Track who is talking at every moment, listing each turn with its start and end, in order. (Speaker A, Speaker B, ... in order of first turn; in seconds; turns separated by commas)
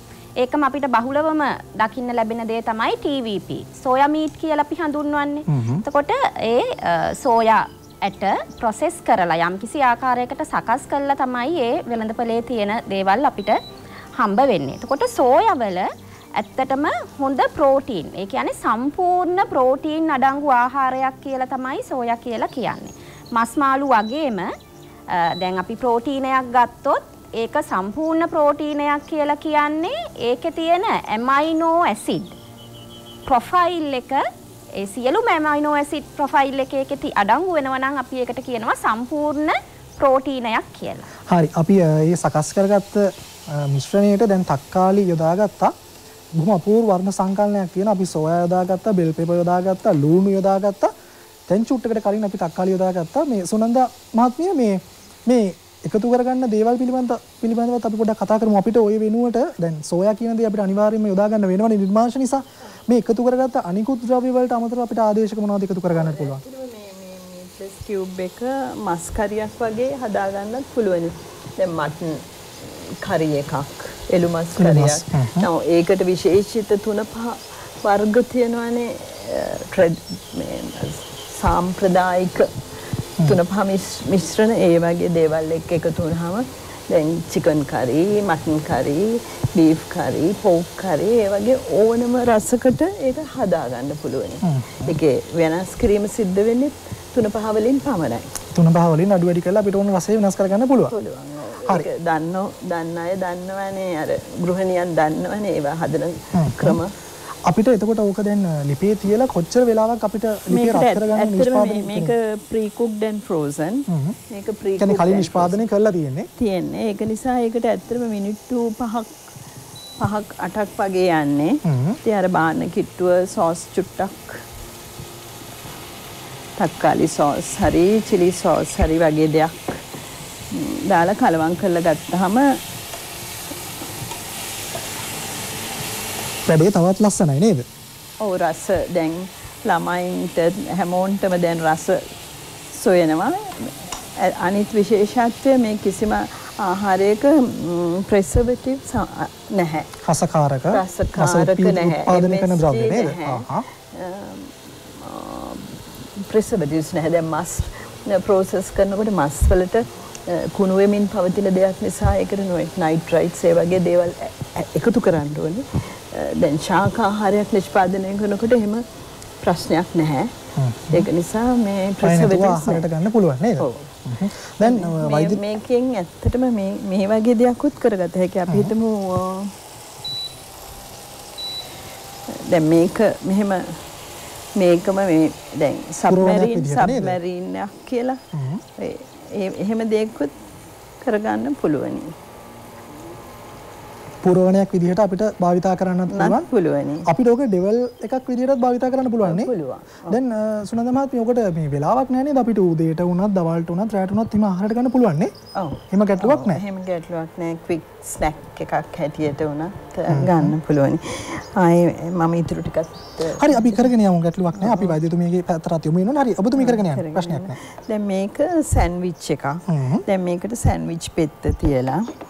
Speaker A: 0.4-13.6, Speaker B: 5.5-5.8, Speaker A: 14.2-24.5, Speaker A: 25.1-32.3, Speaker A: 33.2-41.1, Speaker B: 41.2-45.7, Speaker B: 46.3-50.9, Speaker B: 51.5-66.4, Speaker C: 65.9-82.6, Speaker B: 74.6-75.5, Speaker C: 83.2-98.3, Speaker B: 94.4-95.0, Speaker B: 98.5-100.9, Speaker C: 100.9-106.9, Speaker B: 106.3-106.8, Speaker B: 107.5-112.1, Speaker C: 110.5-115.6, Speaker B: 113.9-114.2, Speaker B: 114.8-116.3, Speaker C: 116.4-119.2, Speaker C: 120.0-124.4, Speaker B: 121.7-122.0, Speaker C: 126.6-130.0, Speaker C: 130.5-132.6, Speaker B: 136.4-137.7, Speaker C: 138.2-142.1, Speaker C: 142.7-149.9, Speaker B: 150.0-153.7, Speaker C: 150.7-168.8, Speaker C: 169.4-170.3, Speaker B: 170.6-171.1, Speaker C: 170.9-172.9, Speaker B: 172.0-175.4, Speaker C: 173.6-174.0, Speaker C: 174.6-179.5, Speaker B: 178.5-178.7, Speaker C: 182.3-183.9, Speaker C: 184.5-188.2, Speaker B: 186.1-187.2, Speaker B: 188.3-188.6, Speaker C: 188.8-190.4, Speaker C: 191.0-192.2, Speaker B: 194.2-196.4, Speaker C: 196.1-197.1, Speaker B: 197.0-199.5, Speaker C: 199.2-200.2, Speaker B: 200.1-205.3, Speaker C: 205.5-213.9, Speaker B: 205.9-206.6, Speaker B: 210.1-210.5, Speaker B: 213.3-217.6, Speaker C: 214.6-215.0, Speaker C: 216.5-222.1, Speaker B: 219.7-220.1